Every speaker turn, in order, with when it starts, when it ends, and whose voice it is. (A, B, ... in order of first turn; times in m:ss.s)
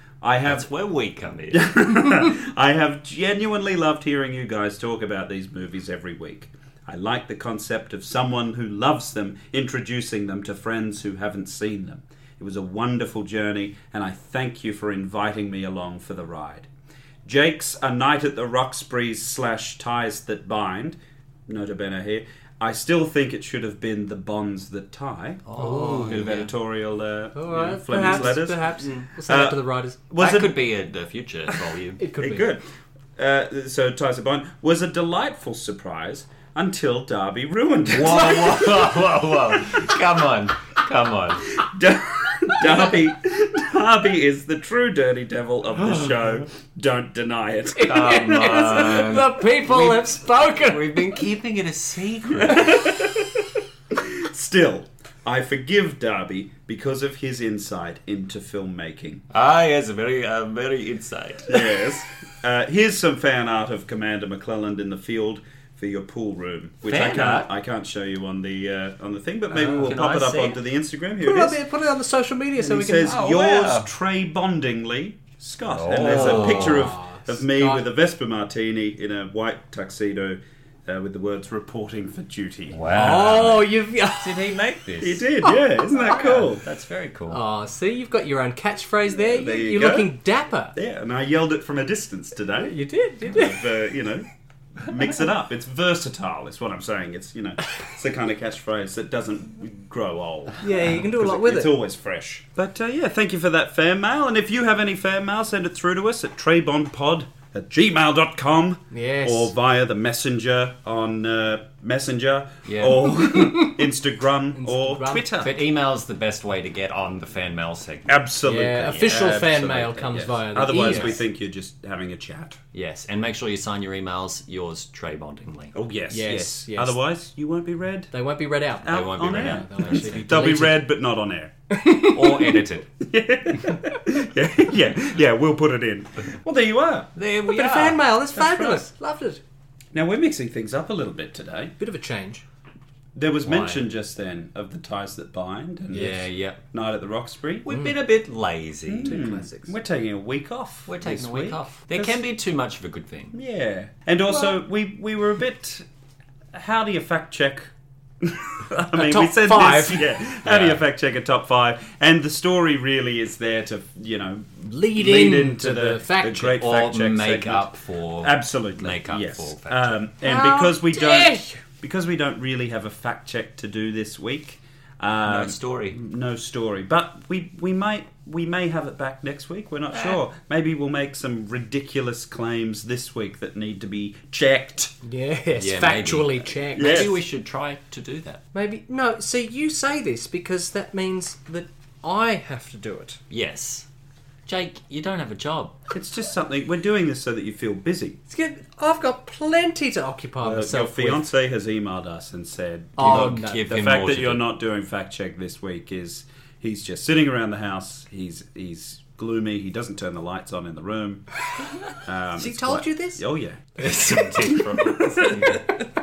0:00.2-0:00.7 A
0:00.4-0:01.9 B
0:01.5-0:16.7 A
0:17.2-0:30.6 A
0:25.4-0:26.5 B
0:25.6-0:26.3 C
0:27.3-0:30.0 C
0:27.9-0:29.1 B
0:30.2-0:32.0 B
0:32.0-0:32.5 C
0:32.2-0:32.6 A
0:33.2-0:38.9 A
0:37.9-0:41.6 B
0:41.6-0:48.3 A
0:47.8-0:51.1 C
0:47.8-0:52.9 B
0:52.4-0:59.2 A
0:59.3-1:01.7 B
1:01.5-1:11.6 A
1:06.8-1:07.5 B
1:09.5-1:10.6 B
1:11.2-1:13.2 C
1:12.6-1:22.8 A
1:13.0-1:13.9 B
1:15.6-1:17.0 B
1:16.0-1:17.8 C
1:22.7-1:25.2 B
1:22.9-1:24.5 C
1:25.0-1:26.6 A
1:25.4-1:26.1 C
1:26.1-1:27.4 B
1:27.3-1:30.7 C
1:29.3-1:30.1 A
1:30.7-1:34.3 A
1:32.6-1:33.6 C
1:34.8-1:55.6 A
1:40.6-1:41.7 C
1:48.9-1:49.5 C
1:52.6-1:53.1 B
1:53.0-1:53.8 C
1:54.5-1:55.3 C
1:55.4-1:58.2 B
1:58.1-2:02.6 A
1:58.4-2:01.2 C
1:58.9-1:59.1 B
2:02.7-2:05.7 B
2:05.7-2:08.1 A
2:06.1-2:07.0 C
2:08.1-2:10.8 C
2:08.8-2:11.5 A
2:08.9-2:10.7 B
2:11.7-2:12.6 C
2:12.1-2:12.9 B
2:13.0-2:17.1 A
2:17.2-2:18.0 B
2:17.4-2:19.4 C
2:18.3-2:18.8 A
2:19.9-2:21.7 A
2:21.8-2:22.4 C
2:23.1-2:27.7 A
2:23.4-2:23.8 B
2:25.9-2:26.6 B
2:27.6-2:29.2 B
2:28.9-2:32.2 A
2:29.0-2:29.7 C
2:30.9-2:33.4 B
2:33.3-2:35.8 A
2:36.5-2:47.7 A
2:38.9-2:40.2 C
2:40.4-2:40.8 B
2:44.7-2:46.6 C
2:46.6-2:50.0 B
2:48.2-3:04.9 A
2:50.2-2:51.6 C
2:55.2-2:56.0 B
2:59.9-3:00.2 B
3:05.0-3:07.2 C
3:05.6-3:08.4 B
3:06.8-3:07.2 A
3:08.5-3:13.2 C
3:13.3-3:13.8 B
3:14.5-3:15.8 B
3:15.9-3:18.2 A
3:18.3-3:21.2 C
3:20.4-3:31.2 A
3:23.0-3:23.6 C
3:23.0-3:24.4 B
3:31.9-3:35.6 A
3:32.4-3:33.2 C
3:33.8-3:35.7 B
3:33.8-3:34.7 C